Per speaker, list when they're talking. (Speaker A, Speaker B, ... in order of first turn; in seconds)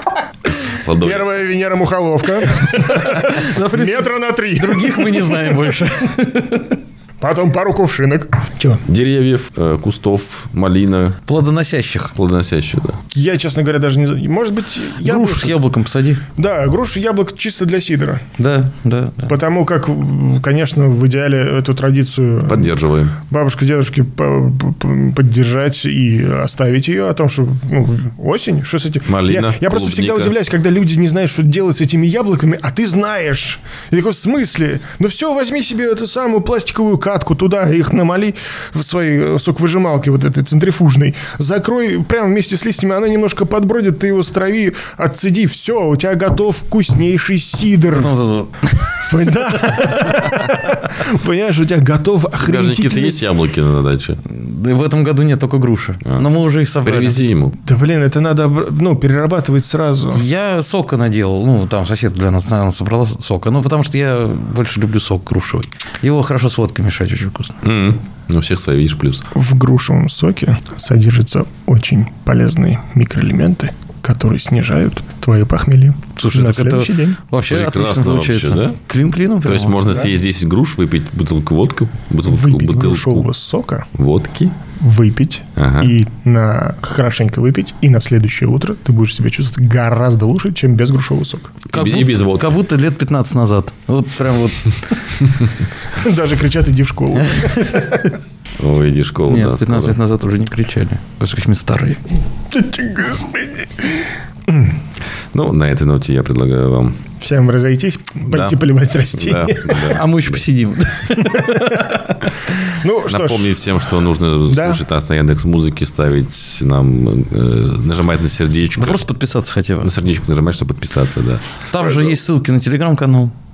Speaker A: 0.5-1.4, 8.9-11.2, 12.2-13.0, 22.5-23.1, 29.1-30.4, 52.4-54.2, 56.8-57.6, 67.6-69.3, 77.5-78.8, 79.4-83.3, 84.0-84.5, 85.6-85.9, 91.7-92.6, 98.6-100.0, 105.3-107.0, 108.3-108.6, 109.1-110.4, 113.1-119.0, 119.8-121.4
Speaker B: 1.0-5.7, 7.2-8.8, 13.1-15.6, 16.4-18.2, 19.3-48.1, 49.1-53.2, 57.6-60.2, 69.3-77.2, 82.3-83.9, 84.8-91.6, 95.9-98.2, 102.5-104.8, 107.2-110.0, 111.2-112.0, 112.6-113.6, 114.5-114.8
Speaker C: 2.8-6.7, 11.3-12.1, 15.0-16.2, 18.4-19.3, 47.9-49.0, 54.3-57.2, 60.1-67.6, 76.2-80.1, 91.7-95.0, 99.3-102.0, 109.8-112.3, 118.8-119.9, 121.7-123.3